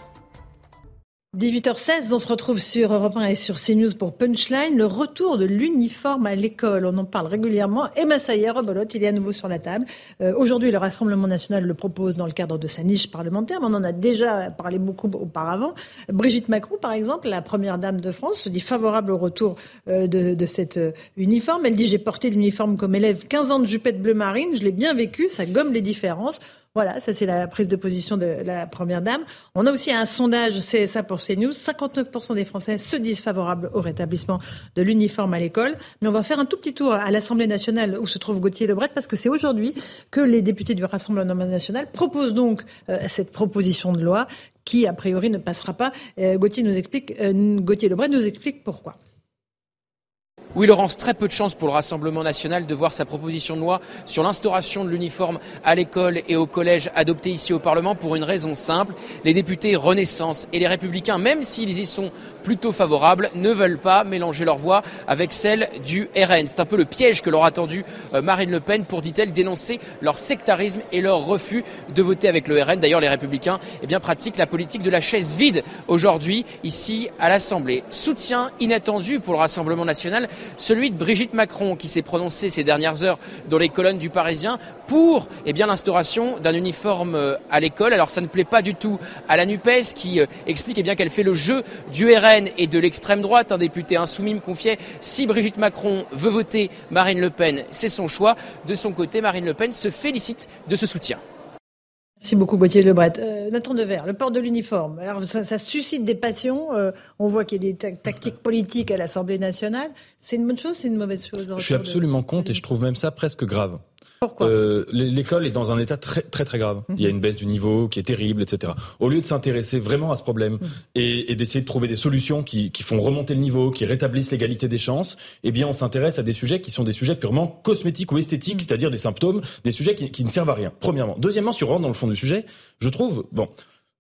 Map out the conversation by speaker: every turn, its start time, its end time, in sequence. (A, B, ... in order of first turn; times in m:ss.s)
0:01.3-0:49.0 A
0:50.6-1:41.2 B
1:42.2-1:52.6 A
1:51.6-1:53.8 C
1:54.2-1:54.5 A
1:54.4-2:13.5 C